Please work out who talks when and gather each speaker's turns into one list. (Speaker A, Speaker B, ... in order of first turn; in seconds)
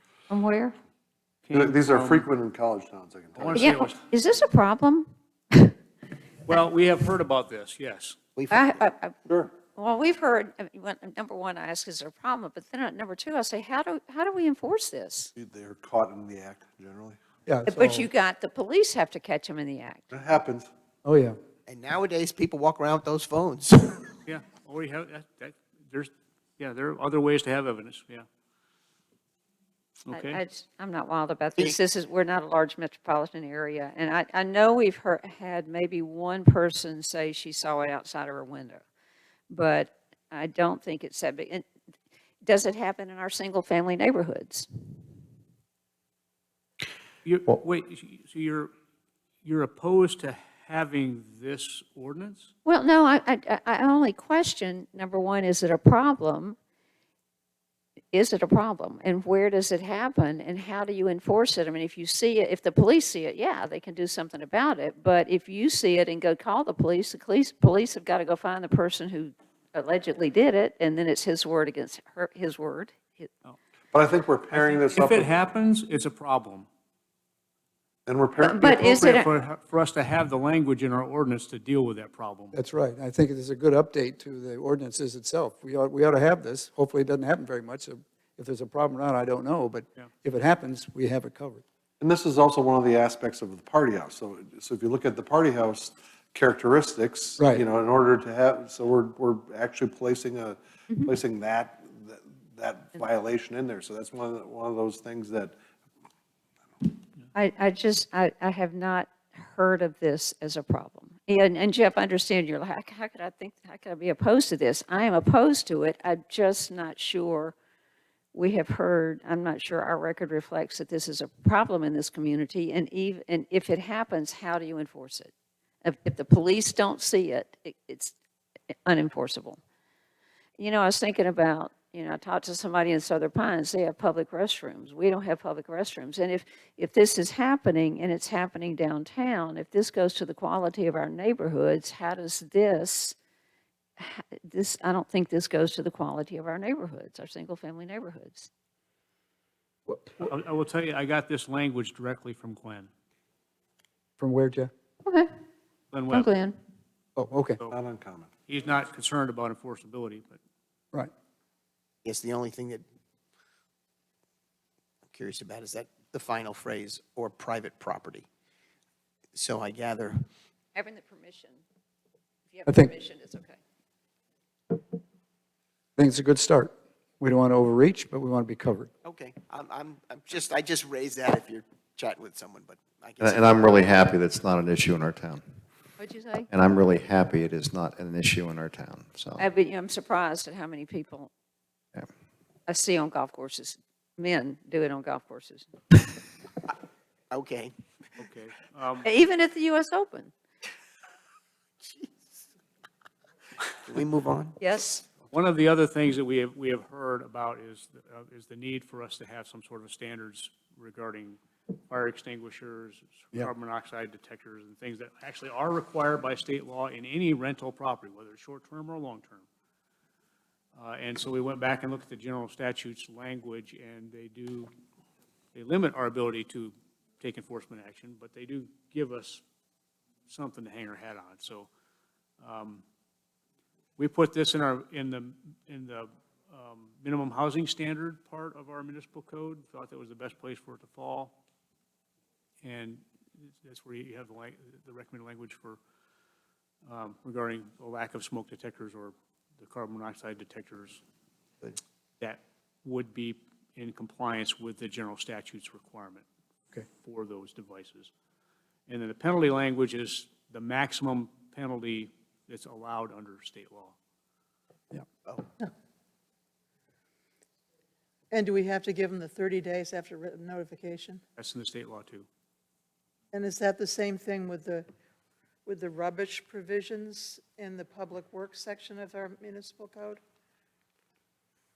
Speaker A: 0.3-0.8, 3.5-5.7, 8.5-15.3, 17.7-20.1, 30.1-38.8, 39.5-41.7, 42.4-44.7, 52.6-56.6, 58.1-73.3, 78.4-79.3, 107.3-117.5, 118.3-125.3, 125.8-128.1, 128.8-129.6, 130.6-143.2, 144.0-148.5, 155.0-155.3, 156.1-156.6, 170.7-171.6, 172.5-173.6, 186.0-186.5, 189.4-191.3, 192.7-195.7, 199.0-200.3, 204.6-205.0
Speaker B: 1.5-2.3, 3.4-4.0, 6.5-8.2, 24.2-28.2, 30.1-30.4, 47.2-48.7, 49.4-52.5, 74.5-76.7, 78.6-82.5, 150.2-152.9, 155.9-156.3, 158.5-160.4, 198.2-199.1, 205.3-211.4, 211.9-219.4, 220.8-224.7, 225.5-229.4, 230.3-231.7, 232.4-232.8, 234.0-241.3, 242.6-243.0, 243.6-245.8, 246.8-251.0, 252.2-256.2, 256.9-258.1, 258.9-263.9, 271.4-272.2
Speaker C: 1.5-3.7, 9.2-9.5, 15.3-17.2, 20.1-20.7, 73.9-75.3, 78.0-78.8, 92.0-105.5, 157.7-158.3
Speaker D: 8.3-8.8, 21.7-24.1, 162.0-162.8, 165.1-168.3, 169.3-170.2, 179.0-183.8, 197.3-197.7, 203.8-204.6
Speaker E: 17.4-18.1, 21.0-21.4, 82.5-91.6, 97.4-97.6, 149.9-150.2, 154.2-154.7, 157.2-157.6, 172.7-172.9, 176.0-178.9
Speaker F: 183.2-185.4, 186.5-189.4
Speaker G: 268.3-271.2, 273.3-274.9, 275.6-280.2